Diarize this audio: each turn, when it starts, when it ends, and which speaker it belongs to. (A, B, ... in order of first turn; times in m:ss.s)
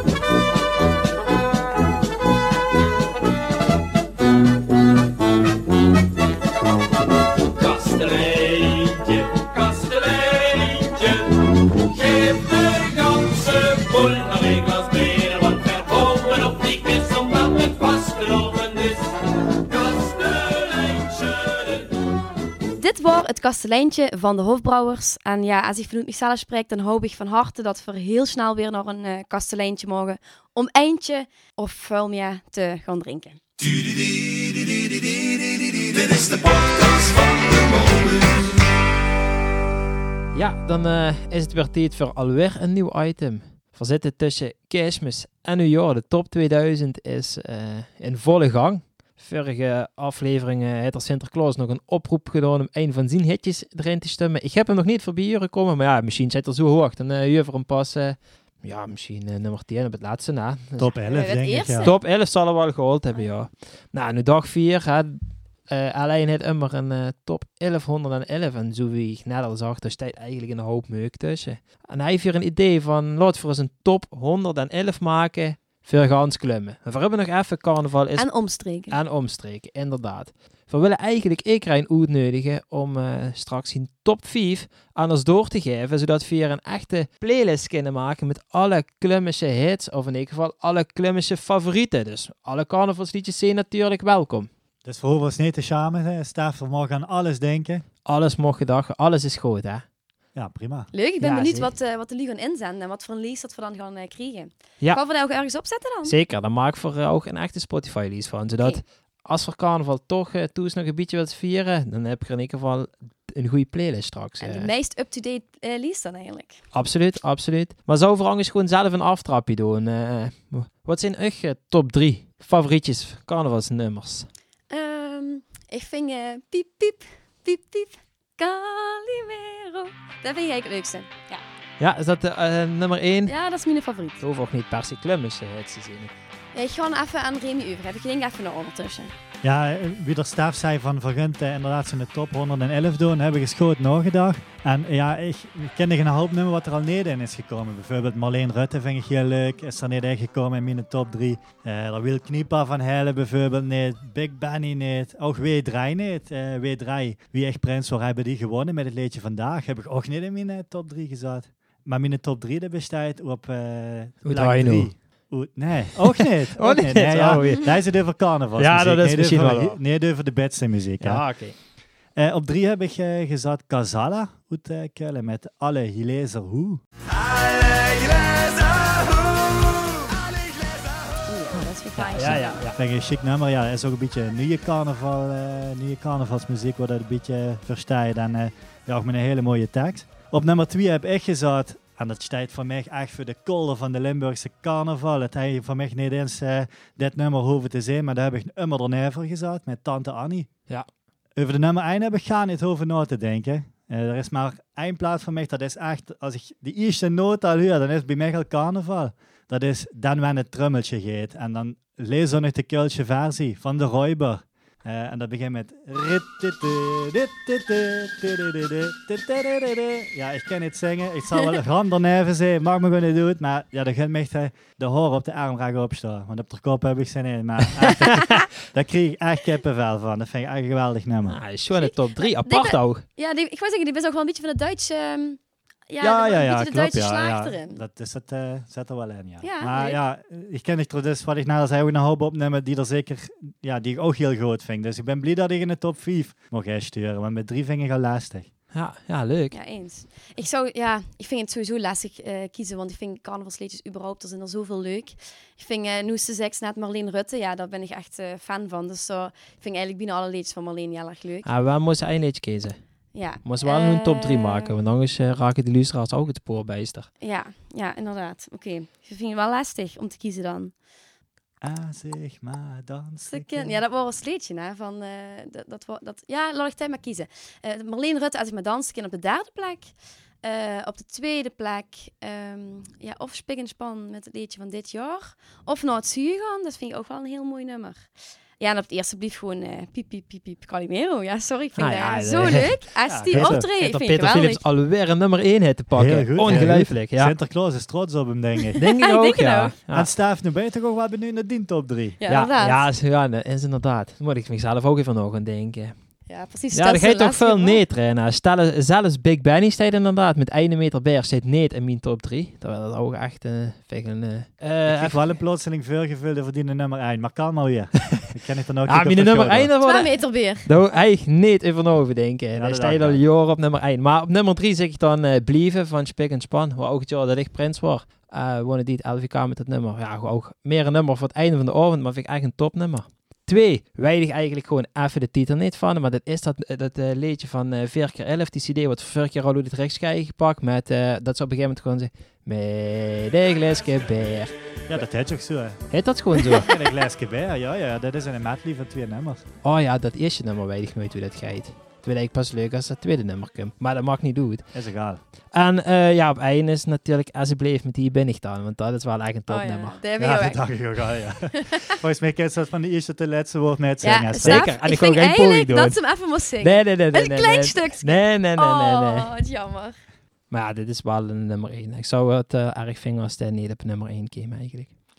0:07.5-0:21.9 A
0:22.8-0:33.4 B
0:33.6-0:38.6 C
0:40.3-1:00.9 D
1:00.8-1:01.9 E
1:01.1-1:02.0 B
1:01.8-1:18.3 D
1:18.2-1:19.0 B
1:18.9-1:34.5 D
1:34.8-1:37.8 E
1:38.0-1:39.8 D
1:40.3-1:40.9 E
1:40.9-1:46.2 B
1:41.2-1:41.7 D
1:46.0-1:54.7 D
1:54.4-1:56.6 B
1:56.7-2:04.3 D
2:04.7-2:11.4 B
2:11.8-2:13.3 D
2:13.3-2:14.2 B
2:14.2-2:16.1 D
2:16.5-2:19.1 B
2:19.4-2:51.2 E
2:44.2-2:44.9 D
2:46.0-2:47.8 D
2:48.6-2:49.8 D
2:51.0-2:51.5 D
2:52.2-2:56.8 E
2:57.1-3:00.2 C
3:01.2-3:02.6 B
3:02.0-3:02.8 D
3:02.7-3:20.5 E
3:21.4-3:51.4 E
3:47.8-3:48.4 D
3:51.3-3:53.0 D
3:51.7-3:57.8 B
3:56.0-4:08.5 E
3:59.4-4:00.0 B
4:08.7-4:09.6 D
4:09.5-4:21.5 B
4:21.4-4:22.8 D
4:23.1-4:24.7 B
4:23.4-4:27.1 D
4:27.2-4:30.7 B
4:31.6-4:33.8 E
4:33.3-4:39.9 B
4:40.4-4:48.1 B
4:48.6-4:54.6 B
4:51.8-4:57.3 D
4:53.0-4:53.6 E
4:55.9-4:58.8 E
4:58.6-4:59.7 B
4:58.8-5:00.1 D
4:59.9-5:02.2 E
5:02.2-5:02.8 B
5:02.3-5:05.9 D
5:06.3-5:07.8 B
5:06.7-5:15.2 D
5:14.8-5:19.7 E
5:18.9-5:44.5 D
5:19.8-5:20.7 B
5:22.6-5:23.2 E
5:44.9-5:45.8 E
5:45.9-5:46.7 D
5:46.4-5:49.4 E
5:49.6-5:54.6 D
5:54.7-5:55.2 E
5:55.5-6:00.0 D
5:59.5-6:00.6 B
6:00.2-6:04.6 E
6:01.5-6:02.0 B
6:04.0-6:09.9 B
6:04.4-6:06.0 D
6:06.6-6:09.3 D
6:10.5-6:14.9 D